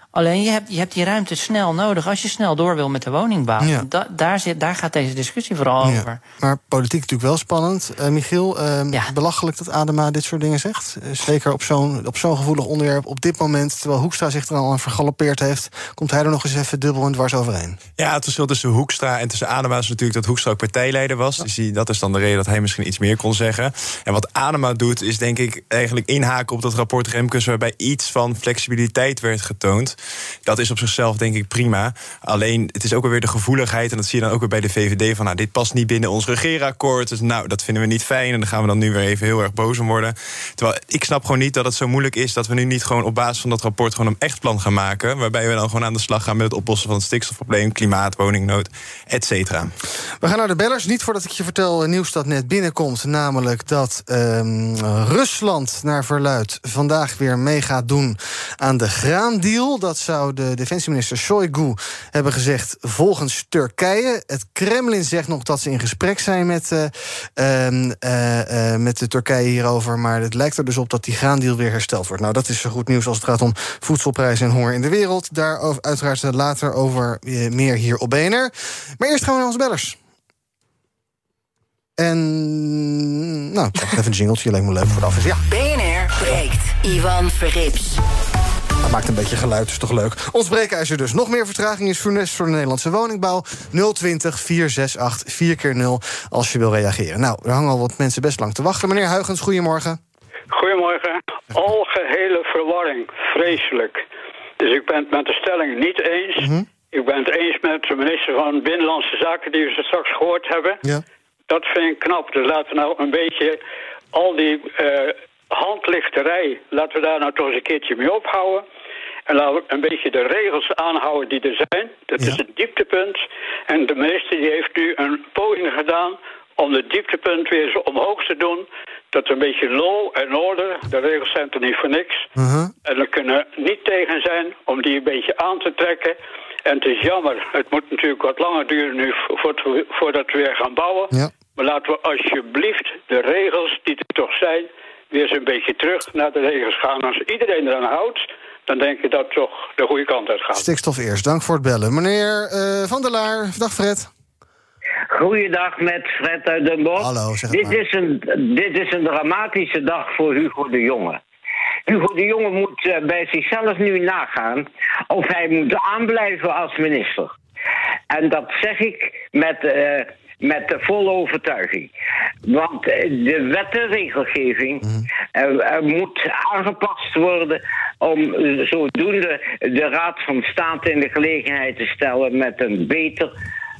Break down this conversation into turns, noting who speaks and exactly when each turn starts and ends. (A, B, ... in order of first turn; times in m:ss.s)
0:00.1-0:06.2 A
0:03.6-0:03.9 B
0:05.8-0:17.8 B
0:18.0-0:49.7 C
0:50.2-1:20.0 B
1:22.0-1:25.4 B
1:25.5-1:28.0 D
1:28.8-1:40.0 B
1:40.5-1:44.0 E
1:44.6-1:50.8 E
1:46.4-1:46.7 B
1:51.5-1:53.6 E
1:54.1-1:58.6 E
1:59.3-2:12.2 E
2:12.4-2:12.7 B
2:12.8-2:30.7 E
2:30.5-2:34.1 B
2:35.1-2:41.2 F
2:37.0-2:37.8 B
2:41.9-2:47.3 F
2:48.1-2:51.9 F
2:52.5-2:54.8 F
2:55.4-3:03.3 F